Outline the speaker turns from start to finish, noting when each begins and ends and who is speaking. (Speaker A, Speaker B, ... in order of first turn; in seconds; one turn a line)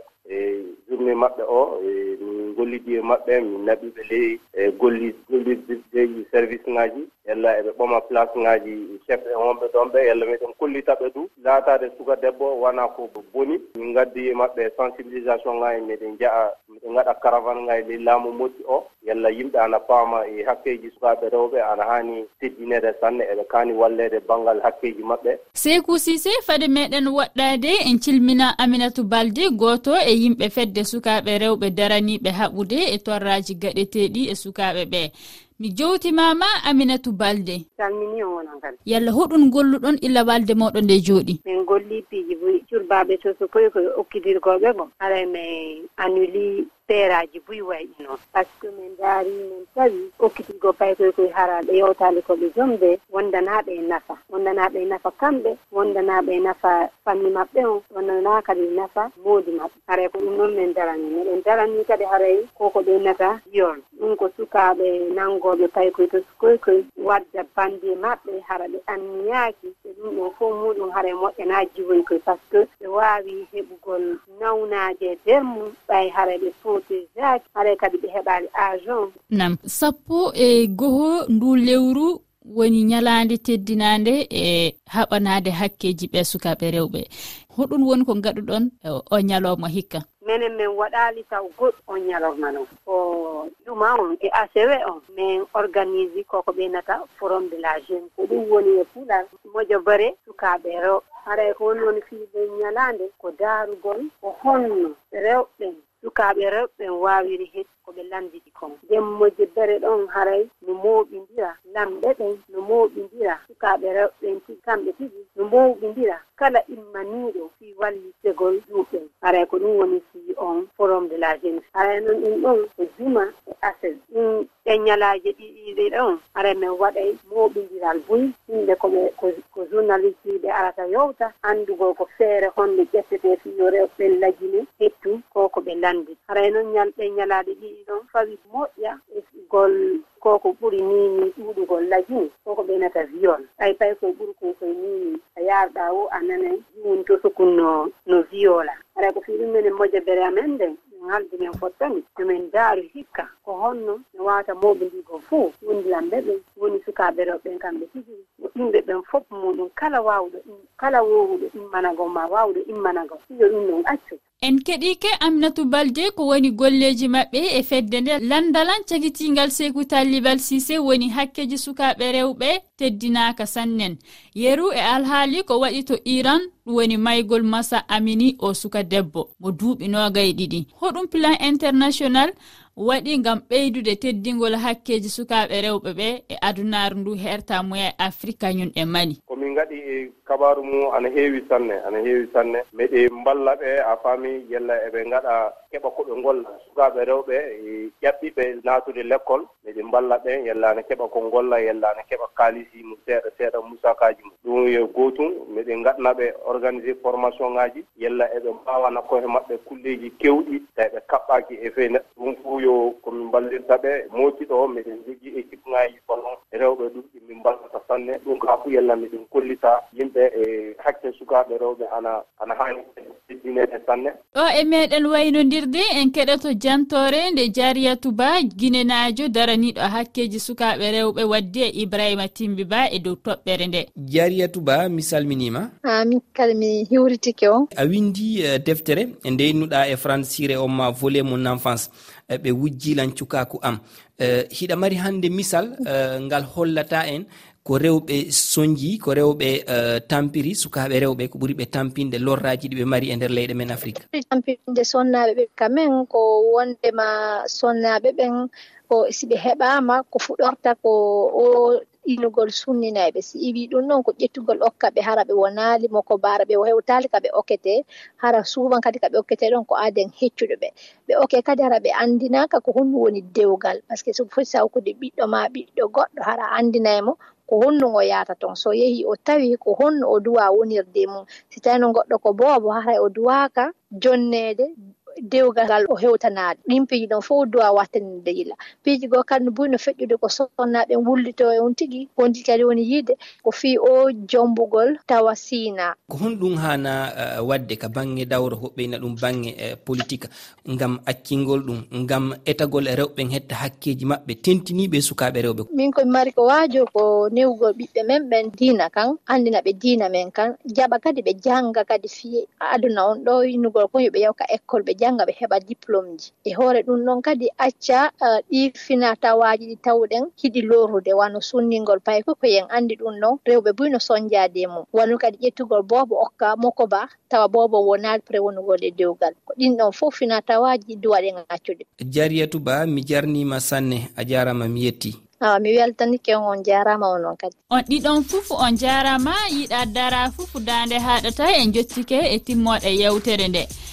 Speaker A: 0.2-25.4
Speaker B: 25.6-37.6
Speaker C: 37.8-38.8
Speaker B: 38.9-41.4
Speaker C: 41.4-79.1
Speaker B: 79.3-90.0
Speaker C: 90.2-164.2
Speaker B: 164.4-189.2
Speaker A: 189.3-224.1
Speaker B: 224.3-233.9
Speaker D: 234.1-235.7
Speaker E: 235.9-237.6
Speaker D: 237.8-254.0
Speaker E: 254.1-258.3
Speaker E: 258.9-284.7
Speaker E: 285.3-295.9
Speaker D: 296.1-305.7
Speaker E: 305.7-331.8
Speaker D: 332.1-335.1
Speaker E: 335.4-337.5
Speaker B: 337.7-343.7